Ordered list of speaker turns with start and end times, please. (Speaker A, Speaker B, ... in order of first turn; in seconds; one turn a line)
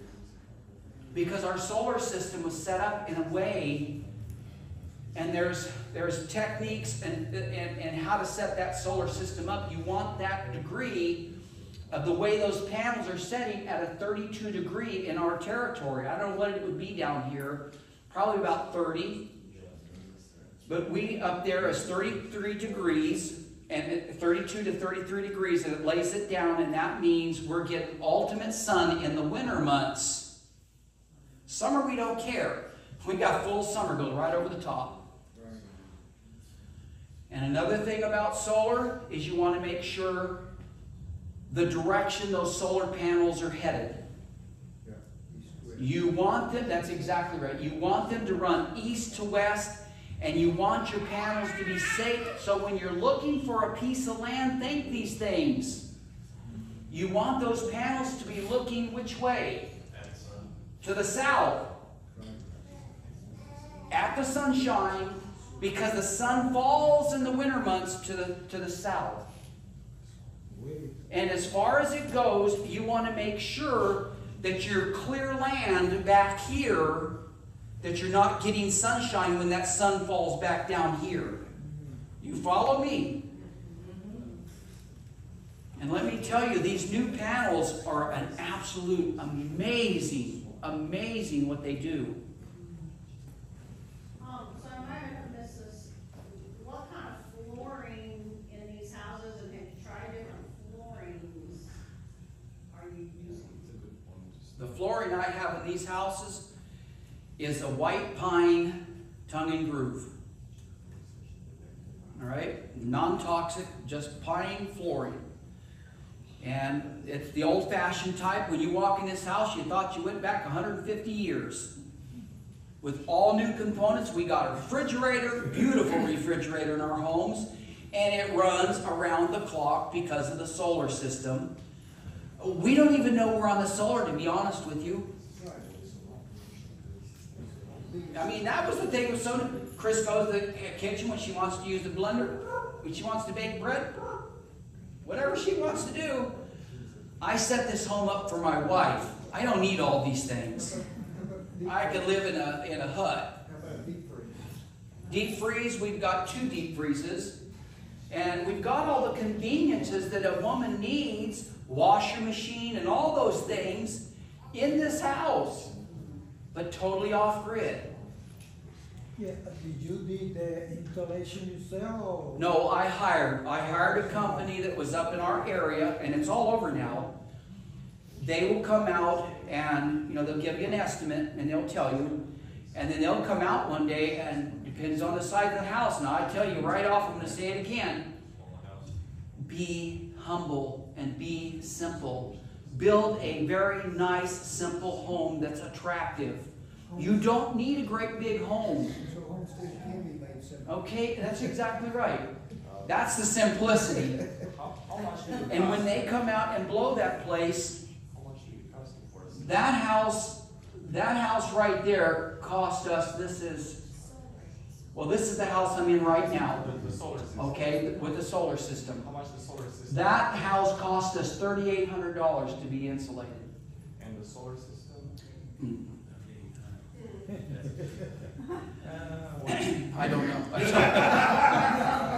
Speaker A: 1.1-3.9
Speaker A: 5.1-11.2
Speaker A: 11.9-19.2
Speaker B: 19.5-20.0
Speaker A: 20.6-30.3
Speaker A: 31.5-35.0
Speaker C: 35.3-35.7
Speaker A: 37.3-40.4
Speaker A: 41.5-44.0
Speaker C: 44.8-45.9
Speaker A: 45.8-55.8
Speaker A: 56.9-59.7
Speaker B: 59.9-60.5
Speaker A: 60.8-61.6
Speaker A: 63.9-69.3
Speaker C: 70.5-70.9
Speaker A: 71.1-77.1
Speaker A: 77.8-81.4
Speaker A: 82.2-83.2
Speaker D: 83.6-84.4
Speaker A: 85.8-92.2
Speaker D: 92.5-92.9
Speaker D: 94.2-101.7
Speaker D: 102.7-103.7
Speaker A: 104.5-106.4
Speaker A: 107.4-108.8
Speaker A: 109.3-110.1
Speaker A: 112.2-115.2
Speaker A: 116.4-121.7
Speaker A: 122.8-131.5
Speaker A: 132.4-135.1
Speaker C: 135.3-135.7
Speaker C: 137.7-138.5
Speaker A: 138.1-144.1
Speaker A: 145.0-146.3
Speaker A: 147.2-150.8
Speaker C: 151.1-152.1
Speaker A: 151.6-153.3
Speaker C: 153.4-154.5
Speaker A: 155.1-157.3
Speaker A: 158.1-164.0
Speaker A: 164.5-165.7
Speaker A: 166.5-167.9
Speaker E: 169.1-172.4
Speaker A: 172.3-177.1
Speaker A: 178.2-182.2
Speaker A: 182.7-188.1
Speaker B: 188.3-188.9
Speaker A: 189.4-199.0
Speaker C: 199.0-201.3
Speaker A: 200.7-202.2
Speaker B: 202.6-203.1
Speaker A: 202.8-204.2
Speaker B: 204.5-206.2
Speaker A: 205.5-207.8
Speaker B: 208.1-209.4
Speaker A: 209.3-213.8
Speaker A: 214.9-216.6
Speaker B: 216.3-217.8
Speaker A: 217.3-219.1
Speaker B: 218.9-220.3
Speaker A: 219.9-223.5
Speaker B: 224.0-225.1
Speaker A: 225.6-225.9
Speaker B: 227.4-227.9
Speaker E: 228.8-229.7
Speaker A: 229.5-231.7
Speaker B: 230.8-231.1